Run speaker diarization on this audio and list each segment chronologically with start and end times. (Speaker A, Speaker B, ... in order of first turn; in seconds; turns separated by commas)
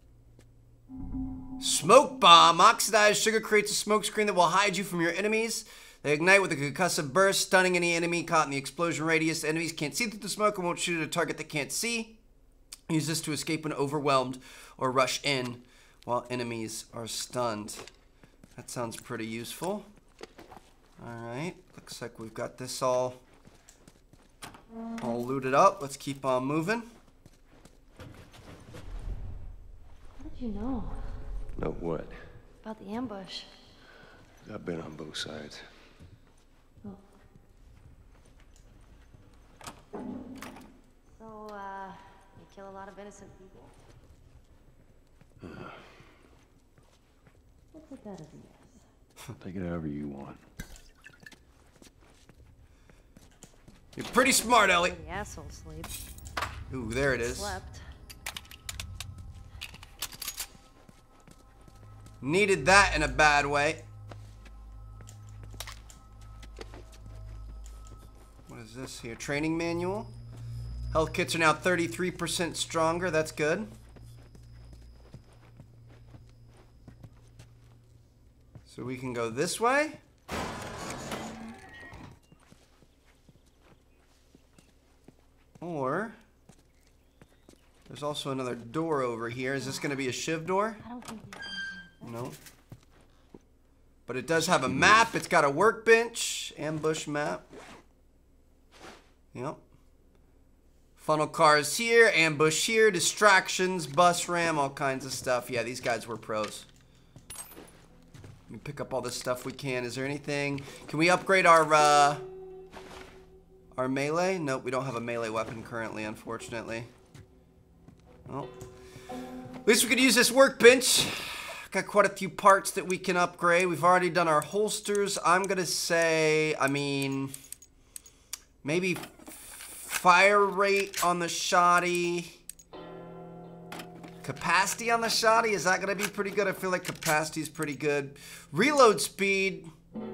Speaker A: 1.6-12.2, Speaker A: 12.9-17.9, Speaker A: 18.6-19.9, Speaker A: 21.0-23.2, Speaker A: 25.0-26.9, Speaker B: 30.2-31.1, Speaker C: 31.6-32.2, Speaker B: 32.6-33.5, Speaker C: 34.4-35.7, Speaker B: 41.1-43.7, Speaker C: 45.4-45.8, Speaker B: 47.7-48.8, Speaker C: 49.3-50.4, Speaker A: 54.0-55.0, Speaker B: 54.8-55.9, Speaker A: 56.7-57.5, Speaker B: 57.1-57.8, Speaker A: 62.2-63.8, Speaker A: 68.5-70.1, Speaker A: 70.9-73.7, Speaker A: 78.7-80.0, Speaker A: 85.6-86.2, Speaker A: 87.9-90.8, Speaker B: 90.8-92.1, Speaker A: 92.0-92.4, Speaker A: 94.1-97.4, Speaker A: 99.3-99.6, Speaker A: 101.0-106.7, Speaker A: 108.5-112.2, Speaker A: 113.7-116.9, Speaker A: 119.6-127.3, Speaker A: 128.6-132.3, Speaker A: 134.2-139.7